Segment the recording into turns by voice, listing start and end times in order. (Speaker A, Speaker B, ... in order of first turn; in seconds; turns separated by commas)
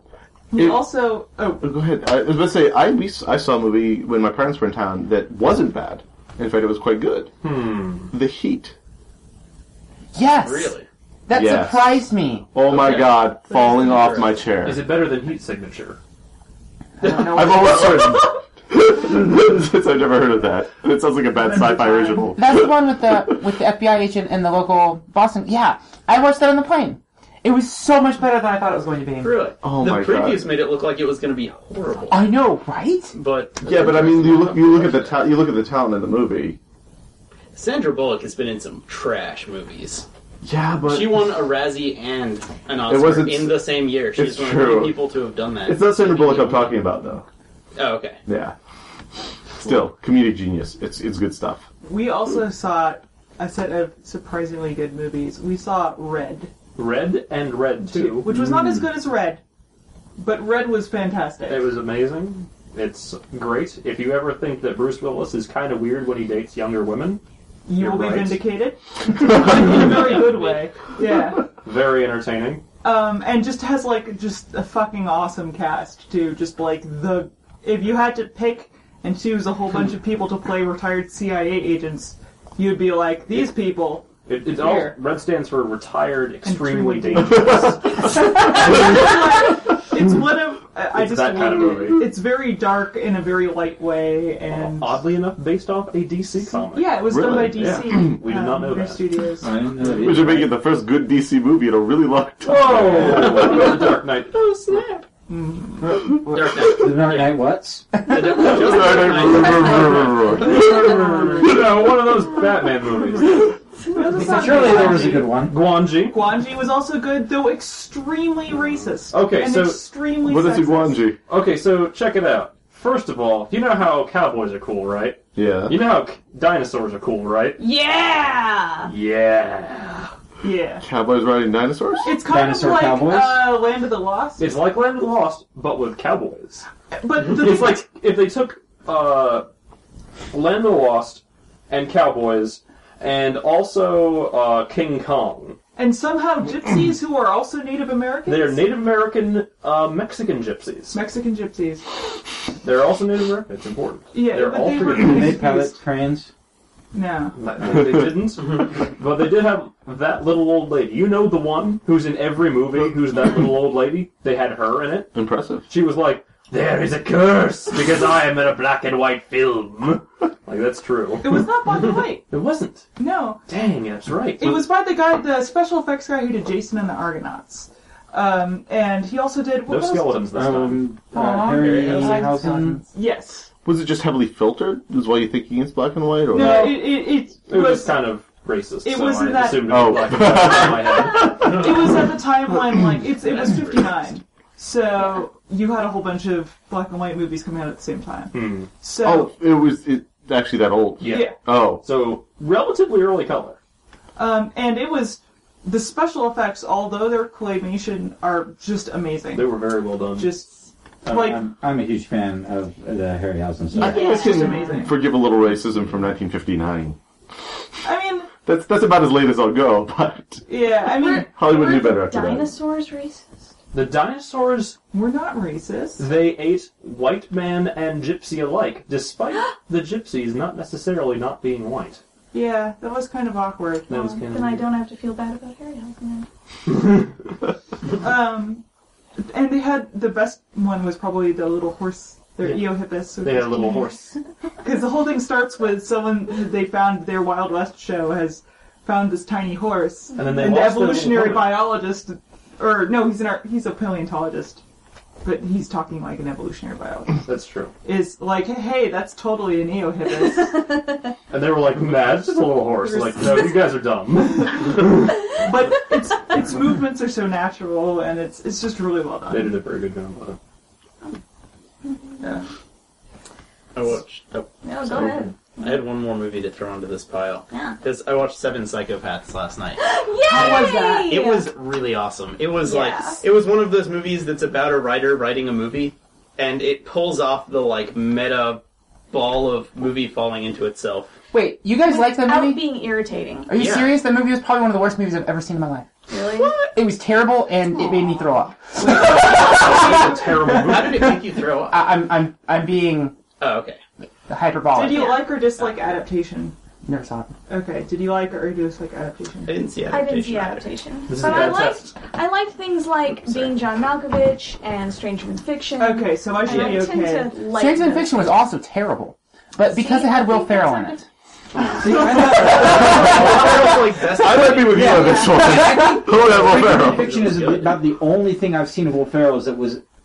Speaker A: 0.5-1.6, Speaker B: 0.6-0.9, Speaker B: 1.6-7.3, Speaker C: 7.4-8.1, Speaker B: 8.1-8.7, Speaker D: 10.2-10.8, Speaker E: 10.4-10.9, Speaker D: 11.3-12.5, Speaker B: 11.3-14.9, Speaker E: 12.7-14.4, Speaker C: 14.6-16.0, Speaker D: 17.0-18.1, Speaker B: 17.0-23.0, Speaker A: 21.4-22.3, Speaker D: 22.4-29.4, Speaker E: 29.2-32.3, Speaker B: 29.6-30.6, Speaker D: 32.1-33.1, Speaker E: 33.1-35.3, Speaker B: 33.6-36.6, Speaker E: 37.5-40.0, Speaker B: 40.4-41.4, Speaker E: 40.9-46.8, Speaker B: 42.9-45.0, Speaker B: 45.6-47.2, Speaker E: 47.8-48.2, Speaker B: 48.3-48.5, Speaker B: 49.6-51.7, Speaker A: 51.8-56.5, Speaker C: 56.8-58.3, Speaker A: 57.9-59.4, Speaker A: 60.2-61.7, Speaker C: 61.5-67.2, Speaker A: 67.7-71.5, Speaker C: 67.8-68.5, Speaker C: 69.3-70.7, Speaker C: 71.6-72.6, Speaker A: 72.8-85.0, Speaker C: 84.3-89.1, Speaker A: 86.5-95.0, Speaker C: 90.9-92.2, Speaker C: 94.5-99.1, Speaker A: 96.5-99.5, Speaker B: 97.1-97.9, Speaker F: 99.4-100.6, Speaker B: 99.9-103.7, Speaker C: 102.4-104.4, Speaker G: 103.5-103.7, Speaker G: 104.3-105.0, Speaker A: 105.3-106.1, Speaker E: 106.3-107.5, Speaker F: 106.7-108.5, Speaker E: 108.0-110.2, Speaker B: 108.4-110.9, Speaker C: 110.2-113.6, Speaker G: 110.5-111.3, Speaker A: 113.9-121.1, Speaker C: 114.2-116.4, Speaker F: 114.2-115.6, Speaker C: 119.1-119.9, Speaker B: 120.2-121.2, Speaker C: 121.3-127.6, Speaker B: 125.4-125.8, Speaker G: 127.6-128.9, Speaker C: 128.9-130.1, Speaker A: 130.4-130.8, Speaker B: 130.8-132.2, Speaker A: 132.0-134.6, Speaker F: 132.2-133.5, Speaker C: 134.4-139.5, Speaker A: 136.9-137.8, Speaker C: 140.3-145.6, Speaker A: 145.8-148.6, Speaker C: 148.3-151.0, Speaker A: 150.9-151.9, Speaker C: 152.6-155.4, Speaker A: 154.1-155.8, Speaker F: 155.0-156.3, Speaker A: 156.9-157.4, Speaker C: 157.4-165.1, Speaker B: 157.8-158.1, Speaker B: 165.1-165.7, Speaker C: 165.7-172.9, Speaker A: 171.2-172.2, Speaker A: 173.0-173.4, Speaker C: 173.5-174.7, Speaker A: 174.4-180.3, Speaker C: 179.7-180.9, Speaker F: 180.3-182.8, Speaker D: 181.1-182.9, Speaker E: 181.4-182.2, Speaker A: 182.9-183.5, Speaker B: 183.6-186.8, Speaker A: 186.3-188.1, Speaker C: 186.3-191.8, Speaker A: 188.8-199.4, Speaker B: 189.7-191.3, Speaker E: 193.3-193.8, Speaker C: 198.3-198.7, Speaker B: 199.0-201.8, Speaker C: 201.0-203.6, Speaker A: 201.1-201.4, Speaker A: 204.2-211.4, Speaker C: 209.3-210.4, Speaker F: 211.1-214.1, Speaker A: 213.8-215.0, Speaker B: 213.8-217.0, Speaker G: 213.8-214.8, Speaker A: 217.8-218.3, Speaker B: 218.4-220.5, Speaker A: 220.5-221.3, Speaker G: 220.8-223.5, Speaker B: 221.3-222.5, Speaker C: 223.7-224.8, Speaker A: 224.9-226.1, Speaker C: 226.0-232.0, Speaker A: 232.3-234.2, Speaker C: 233.9-234.7, Speaker G: 234.2-236.3, Speaker A: 238.0-238.6, Speaker A: 239.3-243.9, Speaker C: 242.4-244.2, Speaker A: 244.6-254.6, Speaker C: 250.2-251.8, Speaker A: 255.2-257.3, Speaker C: 257.2-257.7, Speaker A: 257.8-260.8, Speaker C: 261.3-265.1, Speaker A: 262.8-263.7, Speaker A: 264.4-269.6, Speaker C: 269.3-270.4, Speaker G: 271.9-272.2, Speaker A: 272.2-272.5, Speaker E: 273.8-274.5, Speaker G: 274.6-275.8, Speaker E: 275.6-279.8, Speaker G: 277.5-277.8, Speaker G: 279.8-281.5, Speaker A: 280.3-281.2, Speaker E: 280.4-291.2, Speaker G: 282.6-283.2, Speaker D: 291.3-292.6, Speaker G: 291.8-293.5, Speaker D: 293.5-295.9, Speaker E: 293.5-294.0, Speaker G: 296.1-296.6, Speaker D: 296.5-299.4, Speaker G: 297.8-298.3, Speaker A: 298.8-300.6, Speaker C: 298.8-301.2, Speaker E: 300.5-301.9, Speaker D: 301.7-303.2, Speaker E: 303.4-303.8, Speaker D: 304.3-305.2, Speaker A: 304.7-306.6, Speaker G: 304.8-305.3, Speaker D: 306.9-307.3, Speaker A: 307.5-309.7, Speaker E: 309.4-310.8, Speaker G: 309.9-318.4, Speaker C: 311.1-311.9, Speaker E: 313.2-313.6, Speaker A: 315.8-317.4, Speaker D: 317.5-321.1, Speaker G: 319.6-321.1, Speaker E: 321.5-325.3, Speaker F: 321.8-323.2, Speaker D: 322.4-322.9, Speaker B: 322.7-327.1, Speaker F: 324.8-329.8, Speaker G: 324.8-325.4, Speaker E: 326.1-327.8